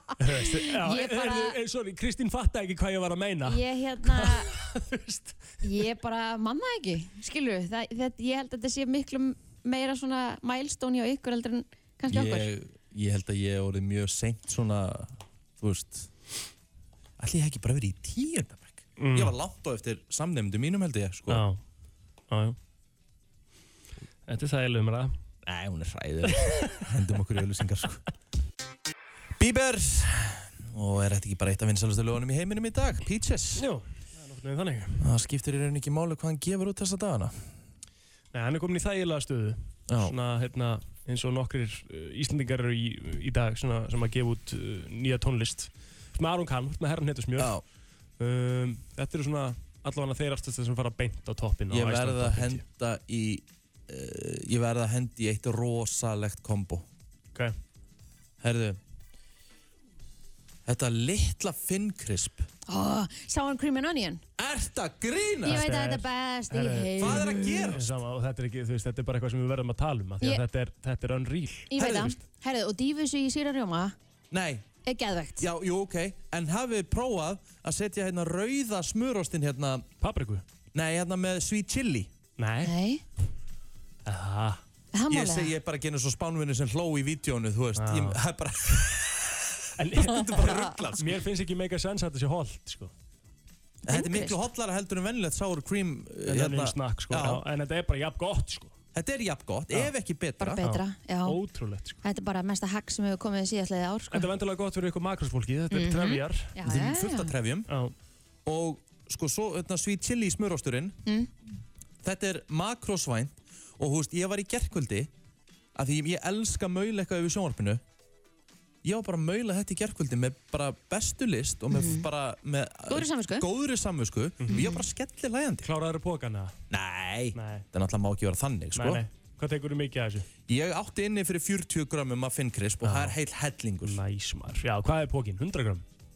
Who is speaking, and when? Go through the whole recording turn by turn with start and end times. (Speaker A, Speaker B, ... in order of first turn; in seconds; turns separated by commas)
Speaker A: 0.2-5.5, Speaker B: 0.3-1.6, Speaker B: 3.4-4.5, Speaker B: 5.6-12.5, Speaker C: 12.1-16.1, Speaker C: 17.2-21.4, Speaker A: 19.0-19.3, Speaker A: 21.3-21.6, Speaker A: 22.3-22.6, Speaker A: 24.3-25.1, Speaker C: 25.4-28.0, Speaker C: 29.4-33.6, Speaker A: 33.6-35.0, Speaker C: 35.0-37.5, Speaker A: 38.3-47.6, Speaker C: 39.9-40.1, Speaker C: 47.4-47.6, Speaker A: 48.2-52.6, Speaker C: 51.7-56.9, Speaker C: 58.4-58.8, Speaker C: 60.6-62.5, Speaker B: 62.7-64.2, Speaker C: 64.4-65.7, Speaker B: 65.4-67.7, Speaker A: 65.5-72.1, Speaker C: 67.0-67.9, Speaker B: 71.7-73.9, Speaker C: 71.8-72.2, Speaker C: 74.3-74.7, Speaker B: 74.8-75.5, Speaker C: 75.4-79.9, Speaker A: 80.0-80.4, Speaker C: 80.7-82.1, Speaker A: 82.4-82.7, Speaker B: 82.6-83.0, Speaker A: 84.0-84.6, Speaker B: 84.9-85.5, Speaker C: 85.1-91.2, Speaker A: 87.8-88.2, Speaker A: 89.8-92.9, Speaker C: 93.8-97.4, Speaker B: 93.9-94.4, Speaker A: 96.3-98.7, Speaker C: 98.9-100.6, Speaker B: 100.4-101.4, Speaker A: 100.6-102.0, Speaker B: 102.0-104.3, Speaker A: 104.1-106.5, Speaker B: 105.7-107.3, Speaker C: 106.6-107.7, Speaker A: 107.7-107.9, Speaker C: 108.5-111.0, Speaker C: 112.0-115.1, Speaker C: 115.7-117.8, Speaker C: 118.8-125.7, Speaker B: 121.7-122.0, Speaker B: 122.9-123.5, Speaker A: 124.4-124.7, Speaker B: 124.5-124.8, Speaker A: 125.6-126.5, Speaker C: 126.7-129.0, Speaker A: 127.3-127.6, Speaker A: 128.7-130.3, Speaker C: 130.5-134.0, Speaker A: 132.8-133.2, Speaker A: 133.8-135.8